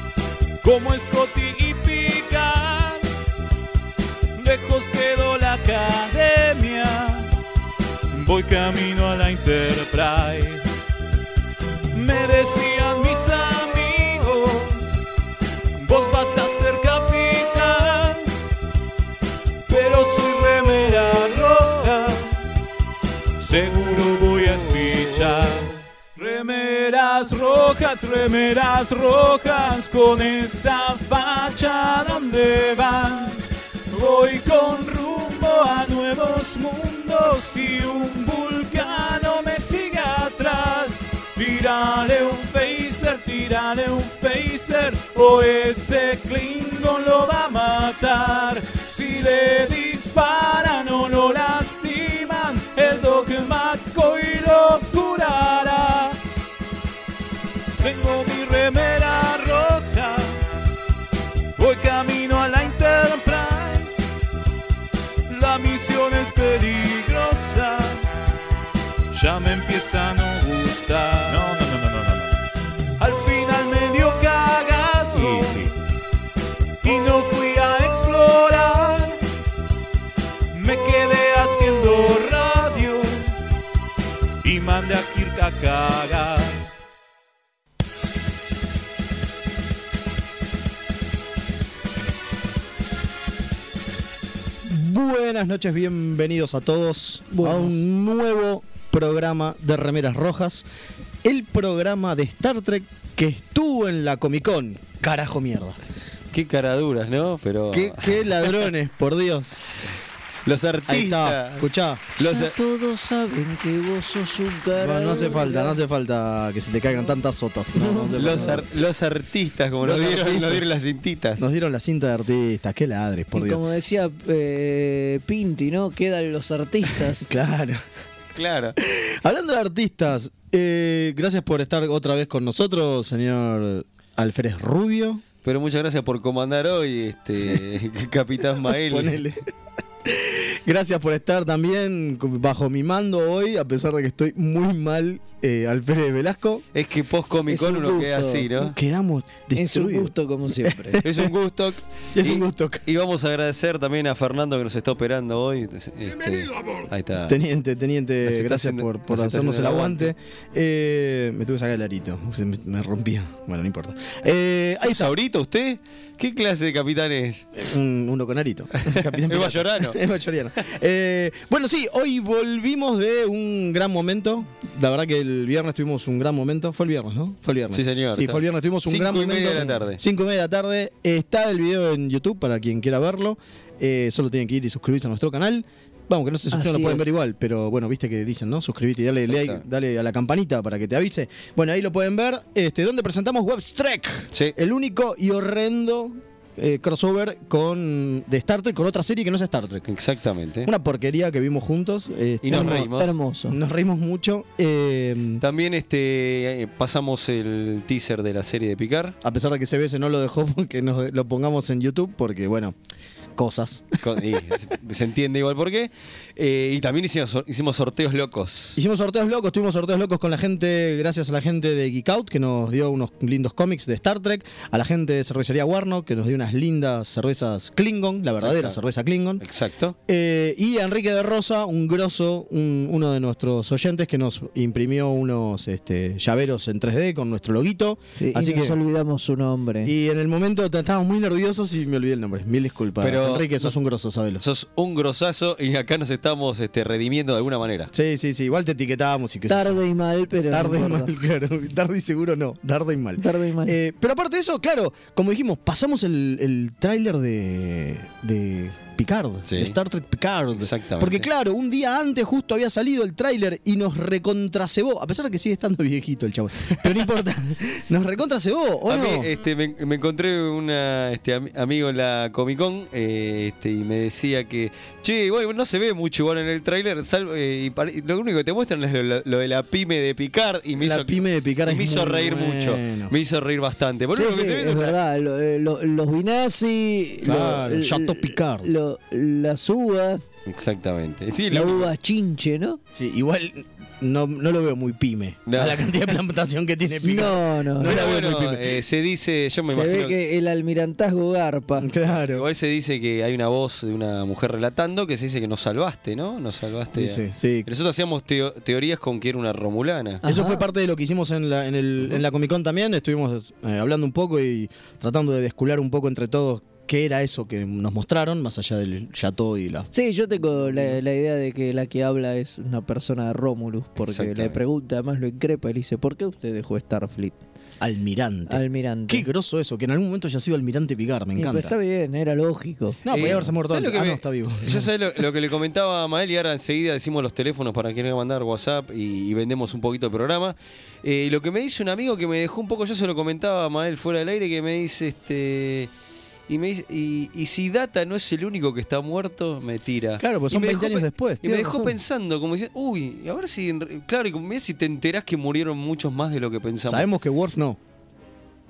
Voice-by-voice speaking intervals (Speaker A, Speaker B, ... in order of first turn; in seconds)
Speaker A: 0.6-3.0, 4.3-7.3, 8.1-10.9, 11.9-14.9, 15.8-18.3, 19.7-22.4, 23.4-56.2, 57.8-60.4, 61.6-64.1, 65.3-68.0, 69.1-72.4, 73.0-75.8, 76.8-79.2, 80.5-83.3, 84.4-86.6
Speaker B: 94.6-100.7, 101.2-105.8, 107.7-109.8, 110.9-112.1, 114.7-118.7, 119.8-120.7, 121.4-123.6, 127.2-127.8, 128.8-135.2, 138.8-139.4, 140.0-146.6, 148.5-150.1, 150.6-151.3, 152.1-152.8, 157.3-165.1, 167.5-199.8, 200.6-202.8, 203.5-205.4, 209.2-212.7, 213.3-214.1, 218.8-229.4, 230.1-238.8, 239.8-244.4, 247.9-249.8, 250.5-269.3, 280.8-283.1, 287.2-288.7, 292.9-298.8, 301.8-302.4, 306.9-307.7, 310.2-319.9, 320.6-321.0, 327.8-331.7, 333.0-334.9, 350.2-352.0, 356.9-357.8
Speaker C: 97.3-97.8, 112.2-115.8, 117.8-118.6, 123.3-127.3, 147.5-148.5, 149.5-151.0, 186.5-187.1, 202.5-203.6, 238.1-239.9, 249.5-251.1, 253.2-253.8, 284.1-290.2, 291.5-292.8, 297.0-297.9, 299.7-301.9, 310.2-310.6, 319.9-327.4, 328.5-329.2, 331.4-333.0
Speaker D: 106.3-108.7, 110.5-111.7, 112.2-112.5, 118.2-121.4, 128.3-128.8, 135.4-139.2, 146.7-148.7, 151.0-157.4, 158.2-160.1, 164.8-167.4, 168.8-170.0, 177.7-180.0, 189.2-189.6, 199.9-200.7, 202.4-203.1, 205.4-209.2, 214.0-218.8, 228.4-228.8, 229.4-229.9, 243.0-243.7, 244.4-247.9, 259.5-259.7, 260.6-261.3, 268.9-285.0, 290.4-291.9, 295.4-295.9, 297.8-300.1, 302.3-310.2, 324.0-324.6, 333.1-345.9, 346.5-357.1